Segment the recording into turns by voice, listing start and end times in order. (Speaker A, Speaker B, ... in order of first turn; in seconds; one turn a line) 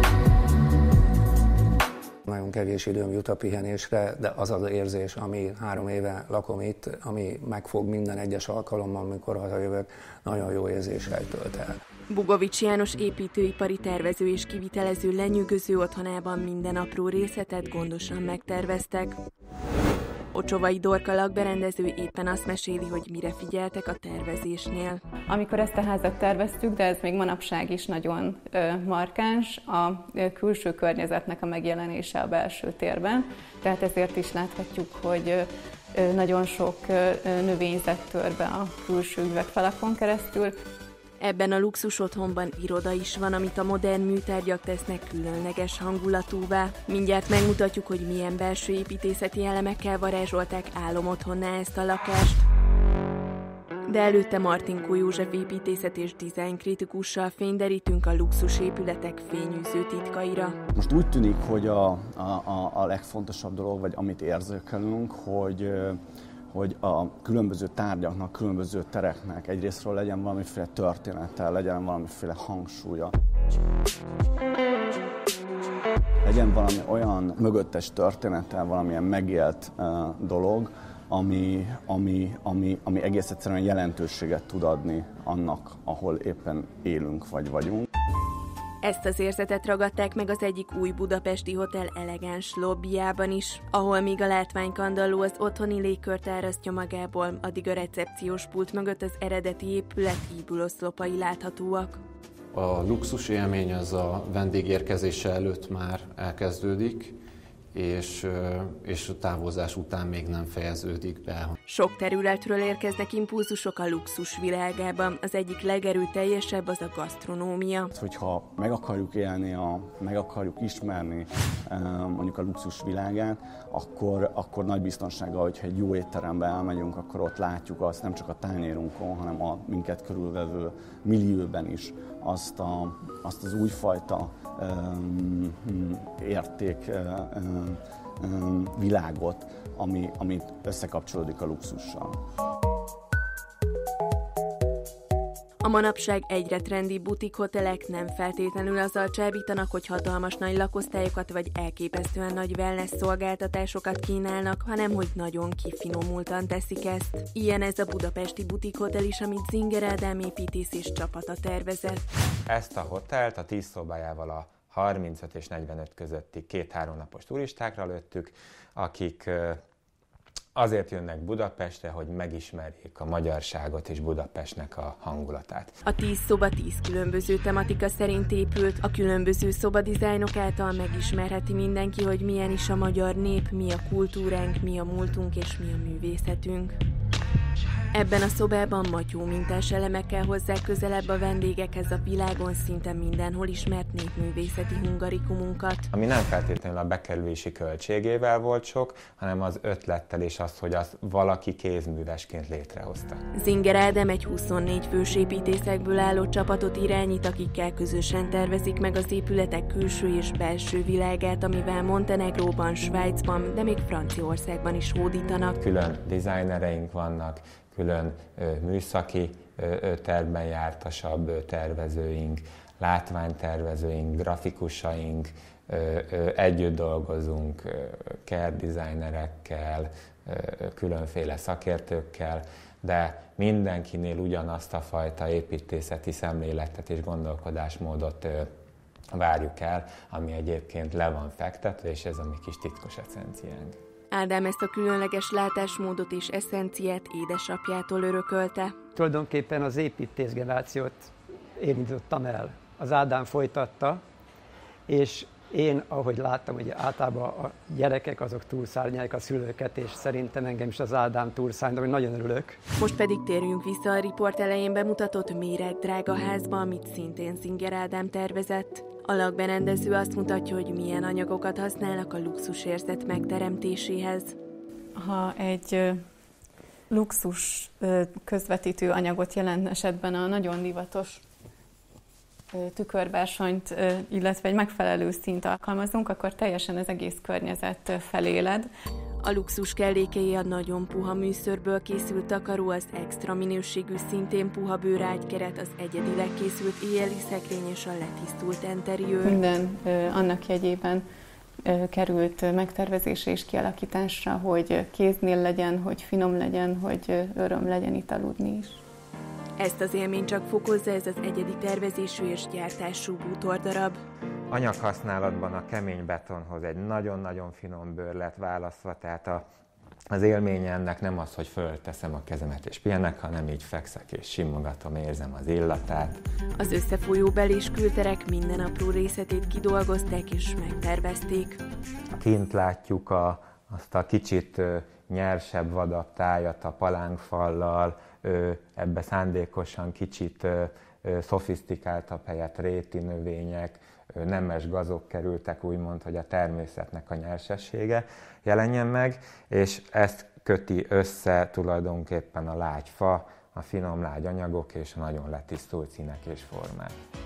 Speaker A: 2.3-11.7
Speaker B: 12.1-19.2
Speaker B: 20.3-25.0
Speaker C: 25.3-40.5
Speaker B: 41.2-52.4
Speaker B: 53.9-60.6
Speaker D: 60.8-66.0
Speaker D: 66.5-73.1
Speaker D: 76.2-87.9
Speaker B: 88.8-102.0
Speaker E: 102.5-107.2
Speaker E: 107.7-111.6
Speaker B: 111.7-117.9
Speaker D: 117.9-142.2
Speaker B: 145.6-162.0
Speaker F: 162.5-169.6
Speaker F: 170.6-175.8
Speaker B: 175.9-186.8
Speaker B: 187.9-195.9
Speaker F: 195.9-203.2
Speaker B: 203.3-215.6
Speaker F: 215.6-238.5
Speaker F: 239.1-243.8
Speaker B: 244.1-248.7
Speaker G: 248.9-254.0
Speaker G: 254.9-262.6
Speaker B: 262.8-274.3
Speaker C: 274.9-276.0
Speaker C: 276.9-281.2
Speaker C: 282.5-288.7
Speaker B: 289.2-299.4
Speaker C: 299.2-301.0
Speaker C: 301.6-308.8
Speaker B: 309.6-314.0
Speaker F: 314.5-319.4
Speaker F: 320.1-326.2
Speaker B: 326.6-331.6
Speaker F: 332.1-356.9